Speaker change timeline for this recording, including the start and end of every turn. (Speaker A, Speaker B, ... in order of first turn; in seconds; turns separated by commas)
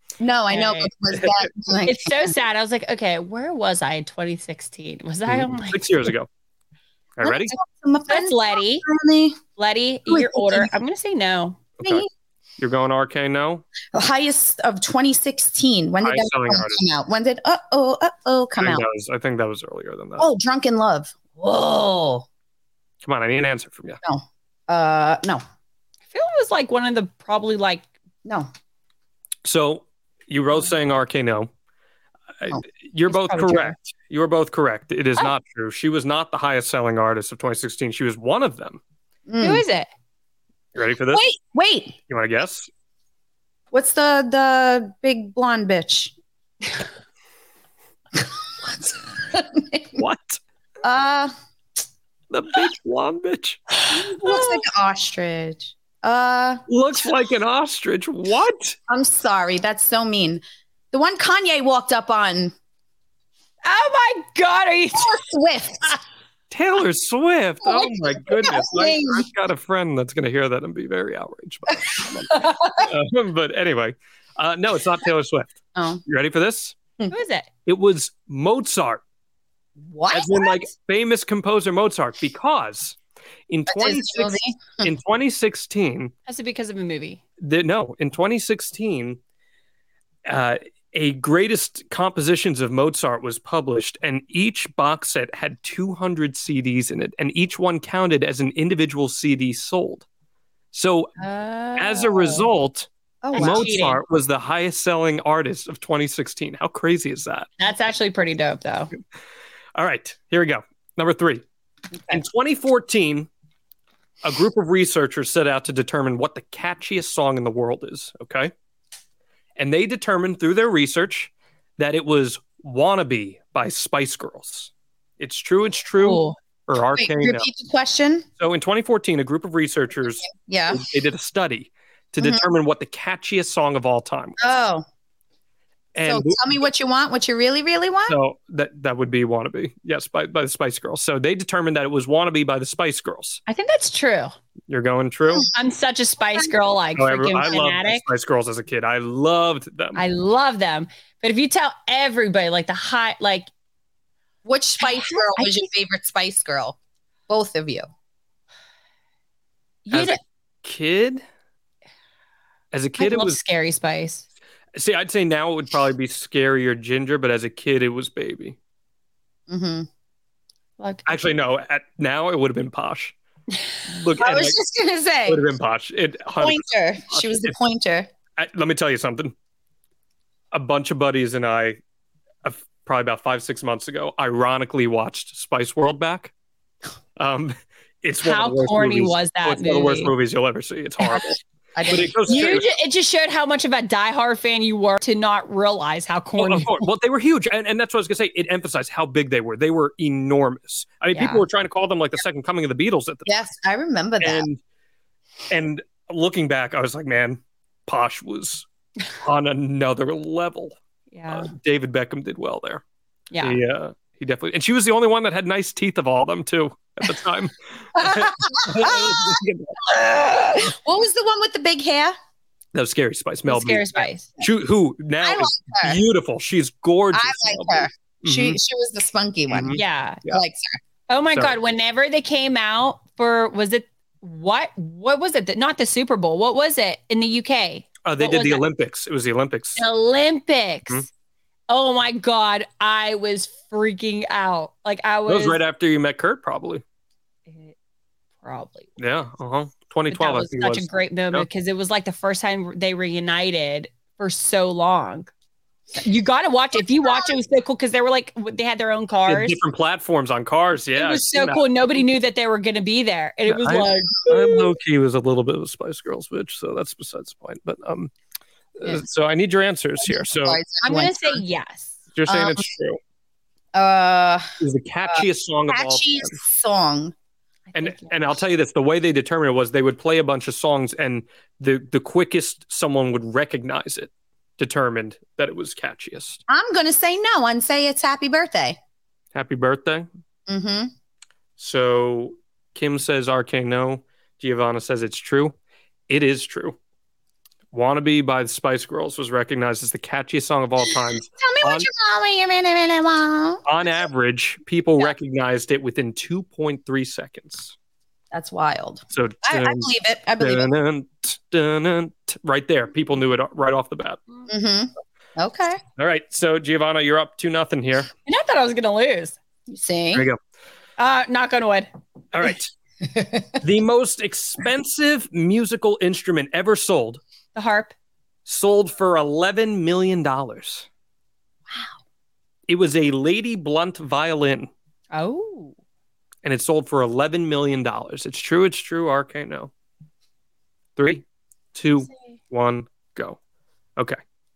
Speaker A: 0.2-2.3, Speaker B: 0.5-0.9, Speaker C: 1.1-1.4, Speaker B: 1.8-5.9, Speaker C: 5.3-6.3, Speaker C: 7.2-7.5, Speaker A: 7.2-9.4, Speaker B: 8.1-8.8, Speaker B: 9.6-11.6, Speaker A: 10.1-10.7, Speaker C: 11.8-12.1, Speaker A: 11.8-12.1, Speaker C: 12.6-13.6, Speaker A: 13.9-18.8, Speaker C: 16.0-16.8, Speaker C: 18.6-20.2, Speaker A: 20.2-22.3, Speaker C: 23.0-24.0, Speaker A: 24.0-25.4, Speaker B: 26.1-27.9, Speaker C: 29.4-31.5, Speaker C: 32.4-38.8, Speaker A: 32.5-33.7, Speaker A: 39.3-39.6, Speaker B: 39.4-39.9, Speaker C: 40.8-41.2, Speaker A: 41.1-42.0, Speaker C: 42.1-42.7, Speaker A: 43.7-46.1, Speaker A: 48.1-50.0, Speaker C: 50.0-50.4, Speaker A: 50.8-51.3, Speaker C: 52.3-53.6, Speaker B: 53.9-54.6, Speaker A: 53.9-56.6, Speaker C: 56.7-58.8, Speaker A: 58.9-62.5, Speaker B: 63.6-65.1, Speaker A: 65.0-66.0, Speaker C: 66.5-75.5, Speaker A: 67.6-69.3, Speaker A: 72.1-72.8, Speaker A: 75.8-76.0, Speaker C: 76.1-76.8, Speaker B: 77.1-77.5, Speaker C: 77.7-79.0, Speaker A: 79.8-80.6, Speaker C: 80.1-83.0, Speaker C: 83.5-86.1, Speaker A: 83.7-84.8, Speaker B: 86.3-87.2, Speaker C: 87.4-89.2, Speaker C: 90.2-100.0, Speaker C: 100.7-101.1, Speaker B: 101.2-102.5, Speaker C: 101.8-107.5, Speaker A: 103.2-103.6, Speaker B: 103.3-104.0, Speaker B: 107.6-108.9, Speaker C: 109.8-111.4, Speaker A: 112.0-112.2, Speaker C: 112.1-113.3, Speaker C: 114.2-118.5, Speaker C: 119.6-127.5, Speaker B: 126.0-126.3, Speaker A: 126.9-128.2, Speaker C: 128.4-134.6, Speaker A: 130.2-130.8, Speaker A: 132.2-132.4, Speaker A: 134.4-134.8, Speaker C: 135.9-136.4, Speaker A: 136.0-138.2, Speaker C: 138.1-143.4, Speaker B: 143.5-144.3, Speaker C: 144.7-145.5, Speaker B: 145.5-148.0, Speaker C: 147.0-150.0, Speaker B: 149.9-153.5, Speaker A: 154.4-157.9, Speaker B: 154.9-155.6, Speaker B: 159.8-160.2, Speaker C: 159.9-161.2, Speaker C: 162.7-163.4, Speaker B: 163.0-164.3, Speaker C: 164.7-168.6, Speaker A: 169.5-169.9, Speaker B: 170.8-171.2, Speaker C: 171.1-173.1, Speaker C: 173.8-174.6, Speaker A: 174.2-175.4, Speaker C: 175.3-177.5, Speaker A: 176.4-178.1, Speaker C: 178.4-179.3, Speaker C: 180.5-181.8, Speaker C: 182.4-186.3, Speaker C: 187.2-192.7, Speaker B: 188.2-190.1, Speaker A: 191.7-192.6, Speaker B: 192.3-196.8, Speaker C: 196.4-203.3, Speaker B: 201.1-201.4, Speaker A: 203.3-204.4, Speaker C: 204.2-204.6, Speaker C: 205.5-208.6, Speaker C: 209.2-210.7, Speaker B: 211.1-211.5, Speaker C: 211.3-212.8, Speaker B: 213.3-213.6, Speaker C: 213.4-219.9, Speaker A: 217.9-222.1, Speaker C: 222.7-228.6, Speaker B: 223.5-224.3, Speaker A: 225.2-226.0, Speaker A: 227.1-230.8, Speaker C: 229.5-230.4, Speaker B: 229.7-230.2, Speaker B: 231.1-238.6, Speaker C: 238.0-239.8, Speaker B: 239.8-241.1, Speaker B: 241.7-245.6, Speaker C: 245.3-246.8, Speaker B: 247.5-247.7, Speaker B: 248.4-248.9, Speaker C: 249.0-251.4, Speaker B: 250.1-255.3, Speaker B: 256.0-259.6, Speaker A: 257.0-257.3, Speaker C: 259.3-261.6, Speaker B: 260.9-264.6, Speaker C: 263.5-268.1, Speaker C: 268.8-270.6, Speaker A: 270.0-271.4, Speaker B: 270.8-271.9, Speaker C: 272.1-273.0, Speaker A: 272.3-272.6, Speaker A: 273.7-274.5, Speaker C: 274.6-276.4, Speaker A: 275.1-277.1, Speaker B: 277.7-278.2, Speaker C: 277.7-286.4, Speaker A: 286.5-288.8, Speaker C: 289.3-290.1, Speaker A: 290.5-290.9, Speaker C: 291.6-295.5, Speaker C: 296.1-296.8, Speaker C: 297.7-301.9, Speaker A: 301.4-303.6, Speaker C: 303.6-307.7, Speaker A: 308.3-310.7, Speaker C: 309.1-314.2, Speaker A: 314.5-315.8, Speaker C: 316.0-318.1, Speaker B: 318.2-319.4, Speaker A: 319.7-320.3, Speaker B: 321.0-321.9, Speaker C: 322.3-322.7, Speaker A: 323.0-323.6, Speaker C: 323.6-327.2, Speaker B: 327.5-327.9, Speaker C: 328.4-330.9, Speaker C: 332.7-334.7, Speaker B: 335.1-335.7, Speaker C: 336.4-339.7, Speaker C: 341.0-343.4